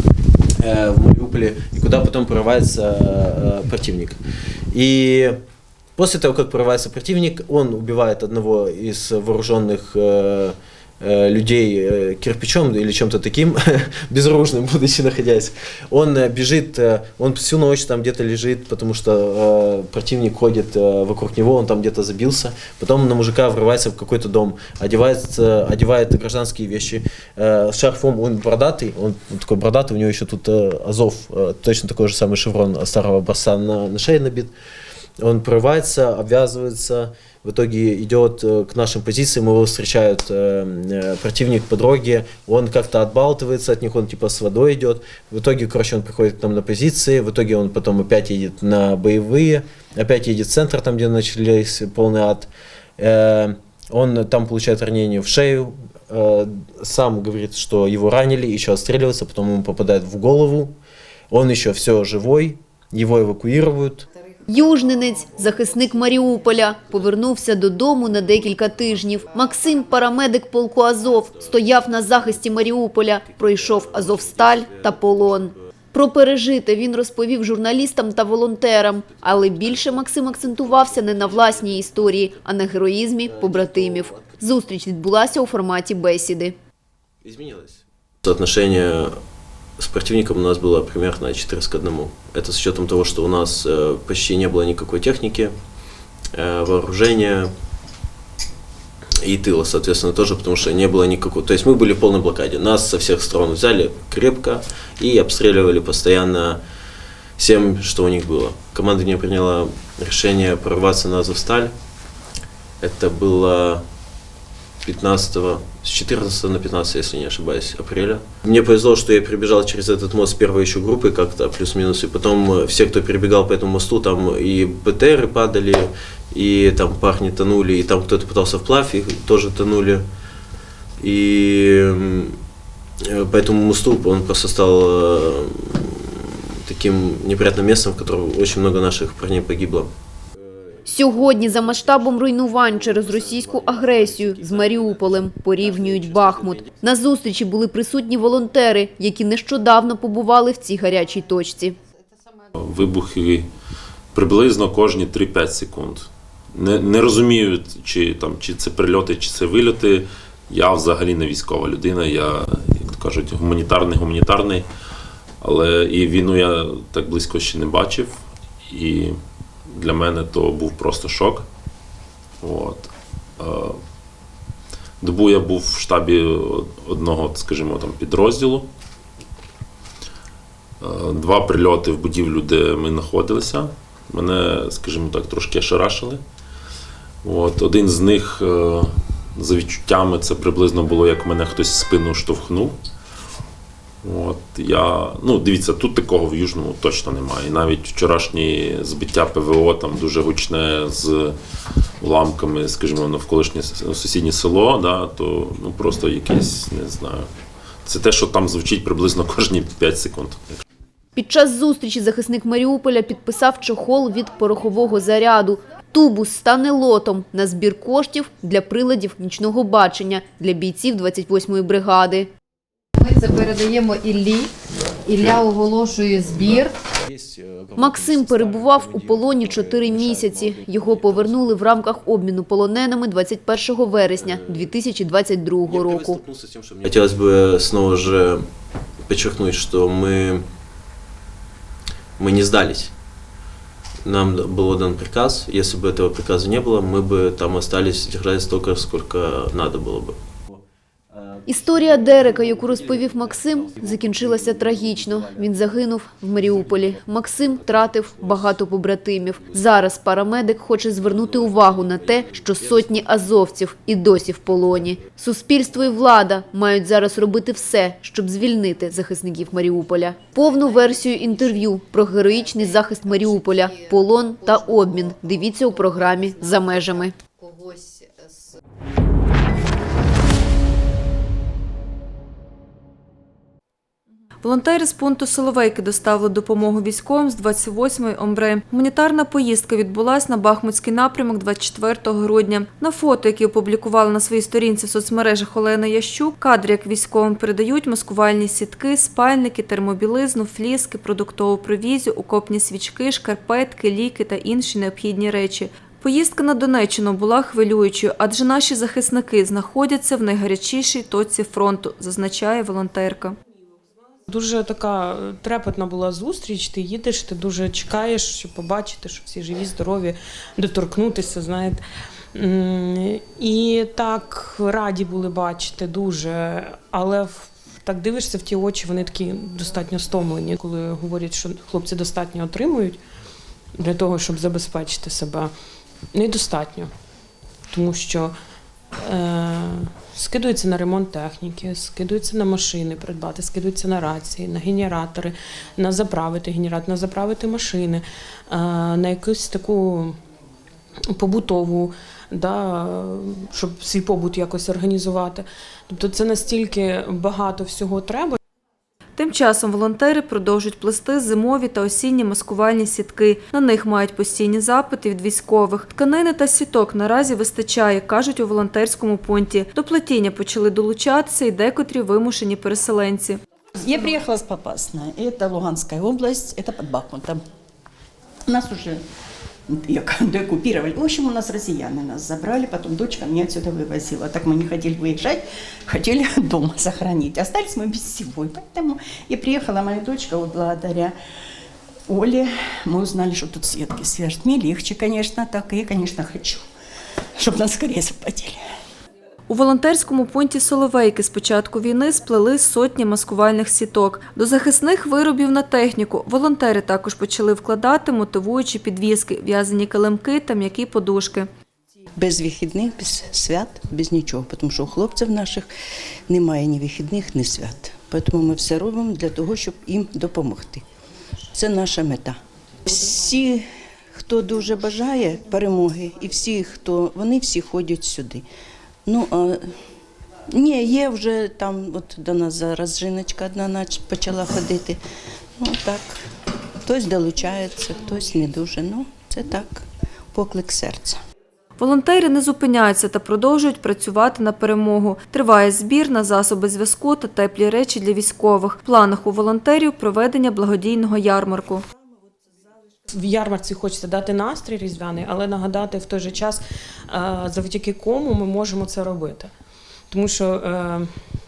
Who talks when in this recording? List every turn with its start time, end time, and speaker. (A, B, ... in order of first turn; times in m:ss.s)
0:00.6-0:04.2 A
0:04.7-0:05.4 A
0:06.0-0:34.5 A
0:35.2-1:00.7 A
1:01.3-1:04.0 A
1:04.5-1:26.5 B
1:23.3-1:24.2 A
1:27.2-1:29.1 A
1:29.8-1:35.5 A
1:36.3-1:37.5 A
1:39.2-1:46.6 A
1:47.4-1:51.7 A
1:52.8-1:53.8 A
1:54.8-2:10.0 A
2:11.0-2:12.4 A
2:13.1-2:19.9 A
2:20.9-2:31.8 B
2:23.8-2:25.2 A
2:32.6-2:33.5 C
2:34.1-2:44.7 C
2:45.4-2:48.2 C
2:48.7-2:49.2 C
2:49.7-2:51.5 C
2:52.4-2:53.8 C
2:55.0-2:58.7 C
3:00.8-3:06.2 C
3:07.2-3:12.8 C
3:14.0-3:21.4 C
3:22.0-3:27.3 C
3:27.9-3:30.6 C
3:31.2-3:42.3 B
3:43.0-3:44.5 D
3:45.0-3:46.7 D
3:47.8-3:56.2 B
3:47.8-3:50.0 A
3:50.7-3:51.4 A
3:54.2-3:54.7 A
3:55.7-3:58.4 A
3:59.1-4:00.4 A
4:02.2-4:02.9 A
4:04.0-4:10.2 A
4:11.5-4:37.2 B
4:37.5-4:37.9 D
4:44.4-5:13.4 E
5:14.3-5:21.8 F
5:22.3-5:33.0 F
5:33.8-5:35.5 F
5:36.1-5:36.9 F
5:37.7-5:38.3 F
5:39.0-5:50.2 F
5:51.1-5:58.4 F
5:59.2-6:13.4 E
6:14.8-6:17.2 G
6:29.7-6:30.5 G
6:33.0-6:36.6 G
6:37.5-6:38.5 G
6:39.5-6:51.5 E
6:52.2-6:55.6 H
6:56.3-7:00.4 H
7:01.7-7:02.3 H
7:03.0-7:03.5 H
7:04.8-7:08.3 H
7:10.6-7:15.0 H
7:15.6-7:16.0 H
7:16.9-7:19.6 H
7:20.8-7:21.1 H
7:21.8-7:31.8 E
7:33.1-7:39.5 F
7:40.1-7:41.1 F